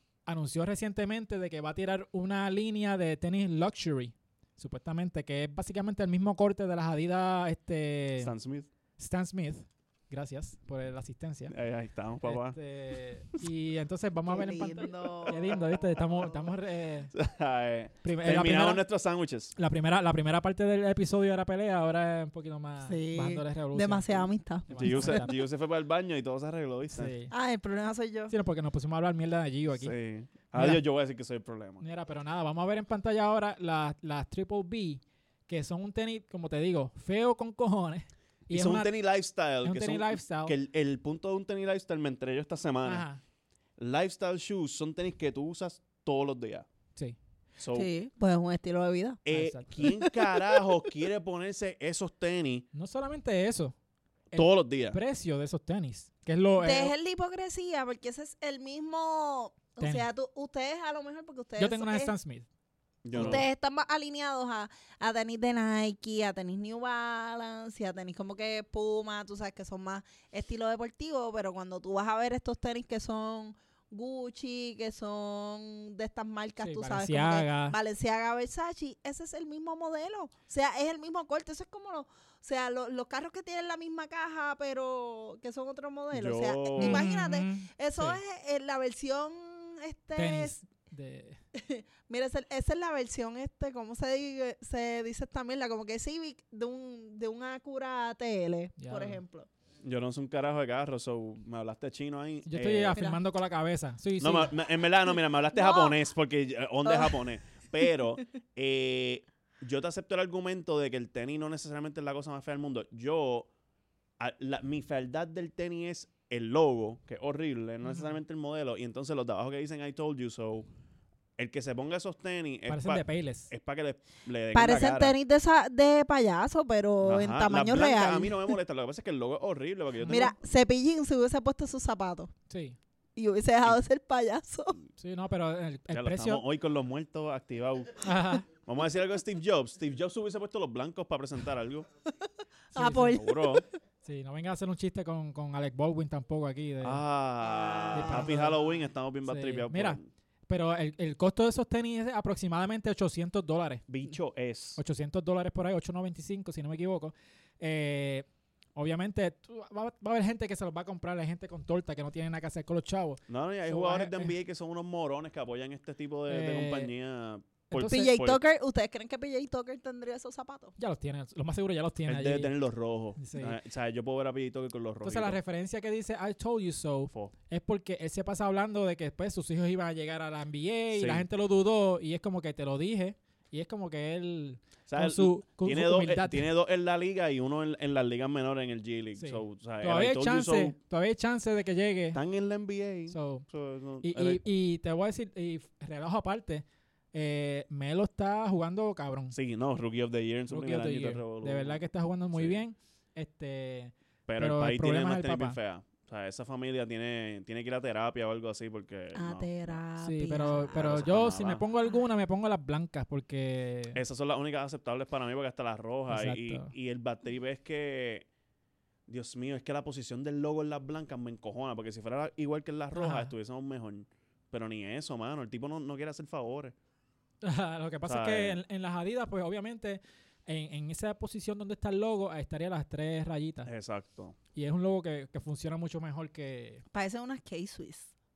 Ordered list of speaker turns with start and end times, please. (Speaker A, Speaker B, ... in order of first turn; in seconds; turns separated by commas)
Speaker A: 0.2-8.3, Speaker B: 8.2-8.7, Speaker A: 9.0-11.5, Speaker B: 11.5-12.6, Speaker A: 12.2-17.1, Speaker C: 14.3-15.8, Speaker B: 17.1-19.5, Speaker A: 18.0-18.8, Speaker A: 19.6-25.3, Speaker C: 22.8-25.2, Speaker B: 24.8-27.1, Speaker A: 26.9-27.3, Speaker C: 27.3-28.3, Speaker A: 28.3-29.9, Speaker B: 29.7-31.8, Speaker A: 30.5-30.8, Speaker A: 31.8-38.9, Speaker B: 38.5-43.0, Speaker A: 39.6-40.5, Speaker A: 42.8-43.2, Speaker B: 43.8-46.7, Speaker B: 47.6-47.9, Speaker C: 47.7-49.2, Speaker B: 49.2-52.6, Speaker A: 49.3-49.9, Speaker C: 49.8-50.6, Speaker A: 52.7-53.8, Speaker A: 54.3-56.9, Speaker B: 54.3-55.0, Speaker C: 56.6-62.1, Speaker A: 59.8-60.1, Speaker A: 61.6-62.5, Speaker B: 63.0-63.5, Speaker A: 63.1-63.4, Speaker C: 63.1-90.6, Speaker A: 76.6-77.8, Speaker B: 86.1-87.1, Speaker A: 86.8-88.2, Speaker A: 90.2-91.4, Speaker C: 91.5-99.5, Speaker A: 98.8-99.2, Speaker B: 99.8-103.1, Speaker A: 102.5-104.5, Speaker B: 104.2-113.5, Speaker C: 105.5-106.0, Speaker C: 106.8-107.6, Speaker B: 114.2-120.7, Speaker A: 117.8-118.1, Speaker B: 121.4-125.1, Speaker A: 122.7-123.5, Speaker C: 124.5-128.6, Speaker B: 127.0-130.3, Speaker A: 130.0-130.3, Speaker C: 130.1-132.3, Speaker A: 132.5-132.8, Speaker C: 133.2-134.8, Speaker A: 135.0-136.4, Speaker B: 135.9-141.9, Speaker A: 138.0-138.5, Speaker C: 142.2-143.7, Speaker A: 142.7-143.2, Speaker B: 143.0-143.6, Speaker A: 144.0-147.0, Speaker B: 146.8-150.1, Speaker C: 147.6-148.2, Speaker A: 147.9-148.6, Speaker A: 149.2-153.8, Speaker B: 153.9-154.8, Speaker A: 154.8-164.3, Speaker B: 163.3-168.4, Speaker A: 166.3-166.9, Speaker A: 167.7-168.2, Speaker C: 167.8-170.8, Speaker A: 170.8-172.5, Speaker B: 172.1-175.4, Speaker A: 173.2-173.6, Speaker A: 175.0-186.5, Speaker B: 180.9-181.2, Speaker B: 184.9-190.8, Speaker A: 189.2-192.2, Speaker B: 192.1-194.4, Speaker A: 193.1-193.5, Speaker A: 194.0-199.3, Speaker B: 199.3-202.6, Speaker A: 200.5-205.6, Speaker B: 204.3-209.8, Speaker C: 209.1-211.0, Speaker A: 210.0-214.0, Speaker B: 210.7-211.6, Speaker B: 213.9-218.3, Speaker A: 216.1-216.7, Speaker B: 219.1-226.7, Speaker A: 222.9-223.3, Speaker A: 227.4-233.7, Speaker B: 228.0-228.6, Speaker B: 233.7-234.3, Speaker A: 234.5-236.8, Speaker C: 236.9-238.1